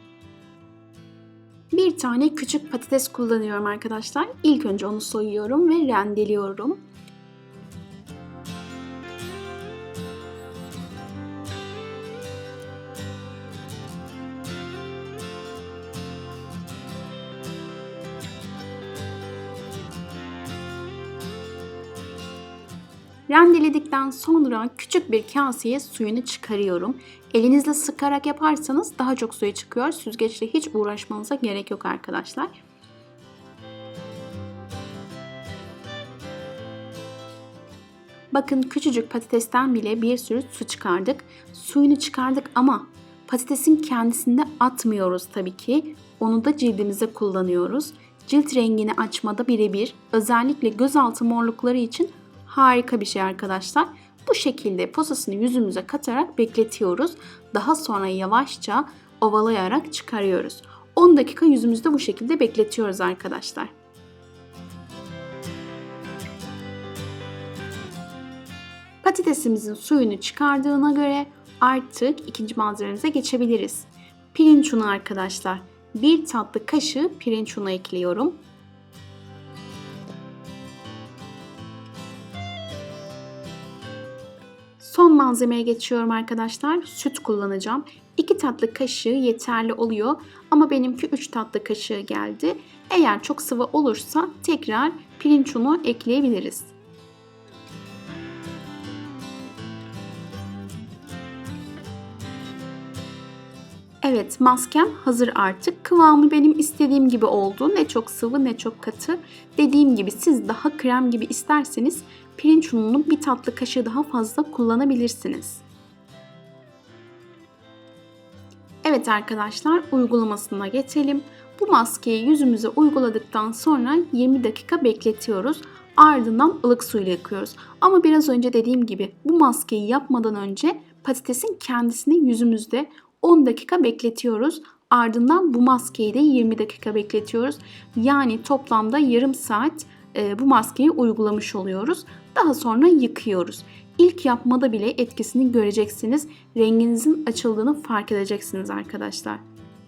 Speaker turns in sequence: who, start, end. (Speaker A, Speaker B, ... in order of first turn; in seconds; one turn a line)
Speaker A: 1.7-6.8
Speaker A: 23.3-32.5
Speaker A: 38.3-63.7
Speaker A: 69.0-78.4
Speaker A: 84.8-96.8
Speaker A: 104.0-115.6
Speaker A: 118.8-149.4